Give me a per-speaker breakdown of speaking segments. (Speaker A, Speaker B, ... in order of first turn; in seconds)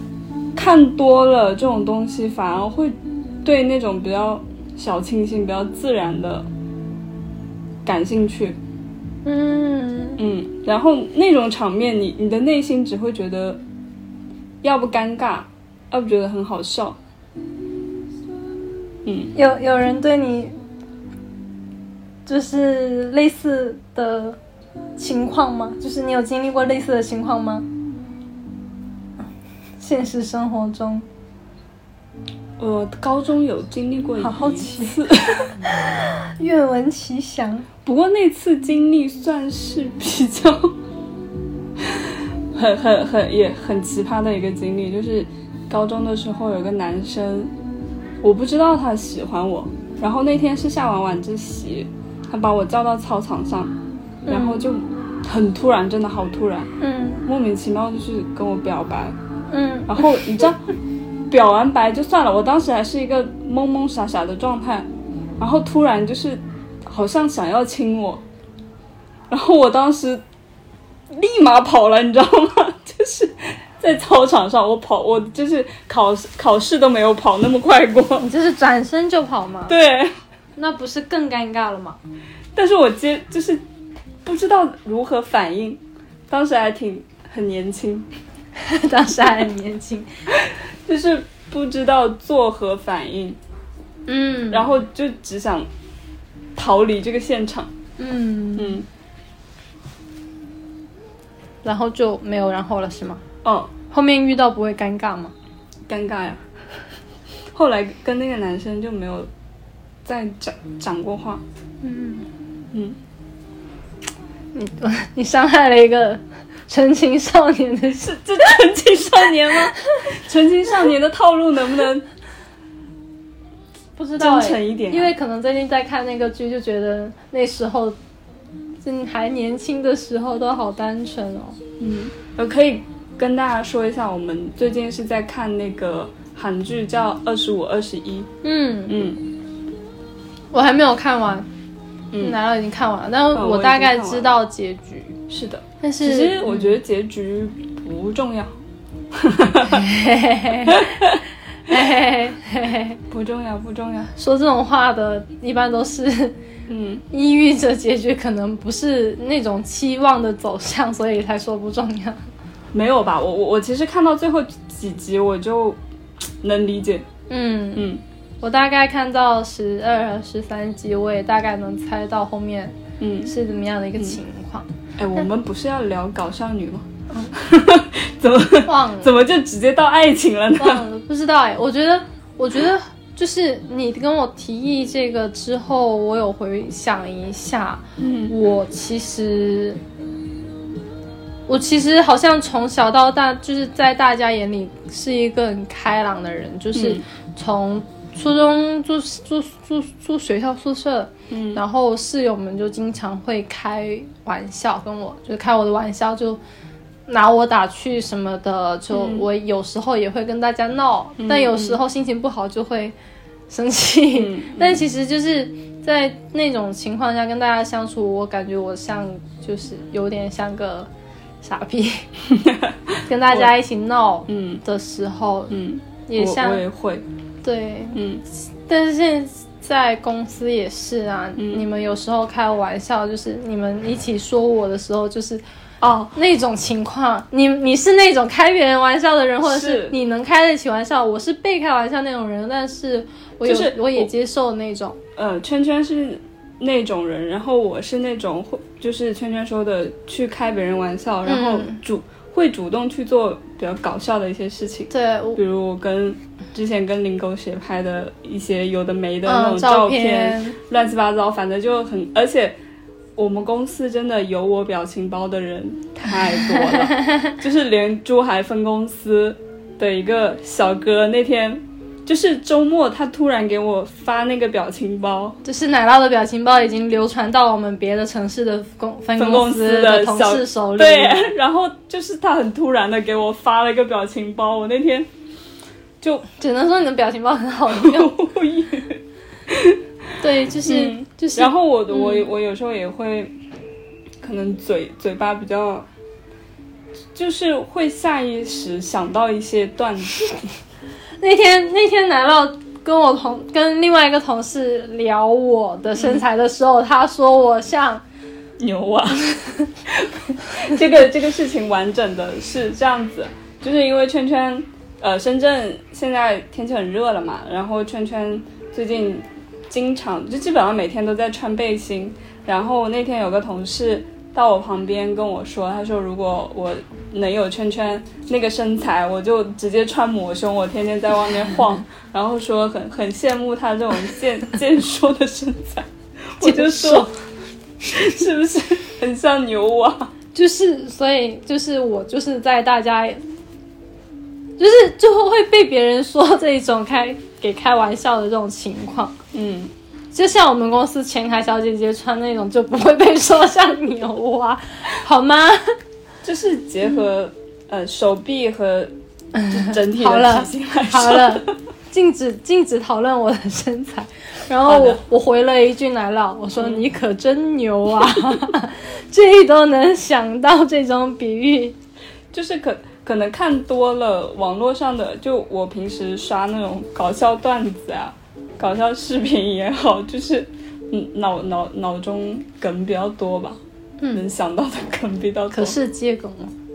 Speaker A: 0.6-6.5, 7.8-8.6, 10.2-13.6, 14.6-17.0, 19.1-19.3, 32.6-35.5, 37.9-40.7, 41.8-47.5, 48.2-53.7, 54.3-56.7, 57.2-59.2, 59.9-60.6, 61.3-64.9, 65.4-68.2, 69.3-70.2, 71.1-78.3, 79.7-80.1, 82.5-83.6, 84.2-88.1, 90.3-93.4, 94.5-95.7, 96.6-97.7, 98.6-98.9, 103.4-103.7, 105.9-106.4, 107.5-109.3, 110.0-111.4, 112.7-113.0, 118.0-122.0, 124.2-125.1, 131.8-138.3, 138.9-139.2, 142.1-142.4, 143.3-144.4, 145.3-148.6, 149.1-149.9, 150.7-151.2, 153.1-154.1, 156.7-157.1, 162.7-165.8, 166.4-167.1, 167.8-168.0, 173.0-173.3, 175.0-180.9, 188.0-188.3, 196.7-197.0, 201.3-201.6, 208.9-209.3, 211.2-211.8, 214.2-214.8, 222.3-223.5, 224.3-224.6, 225.5-227.1, 227.9-228.2, 231.4-231.7, 235.8-236.2, 239.4-240.0, 243.4-244.1, 245.2-262.6, 263.2-275.4, 279.2-285.1, 286.0-286.3, 287.7-289.8, 290.6-293.4, 294.2-295.9, 297.1-300.5, 305.9-306.2, 308.6-309.3, 309.9-337.1, 337.9-340.1, 349.3-349.7, 356.2-358.9, 359.5-361.5, 364.7-365.0, 366.6-366.8, 372.3-383.6, 384.1-385.8
Speaker B: 9.2-10.2, 19.4-20.6, 22.3-24.4, 25.0-27.7, 29.8-31.1, 34.2-37.7, 54.3-54.6, 56.8-57.2, 59.5-60.1, 78.2-79.8, 80.6-82.0, 88.6-90.1, 94.1-94.7, 98.0-98.8, 101.6-103.2, 103.9-105.3, 111.8-112.3, 114.5-118.2, 124.0-128.0, 128.8-131.6, 138.4-139.0, 140.5-141.5, 142.2-145.2, 145.8-146.7, 149.7-151.1, 151.7-153.0, 154.2-156.4, 157.1-162.2, 167.3-172.8, 173.3-175.2, 177.1-177.4, 178.6-179.2, 180.6-189.8, 191.5-206.4, 207.1-212.9, 213.5-220.9, 221.4-222.1, 223.1-226.6, 227.4-228.0, 228.7-235.4, 236.2-245.0, 251.3-251.8, 254.9-255.4, 259.2-260.6, 266.4-267.4, 275.4-281.3, 286.3-288.1, 290.2-292.3, 301.2-308.0, 336.4-337.1, 340.3-343.2, 344.6-349.2, 350.1-355.8, 359.4-371.8, 385.5-386.5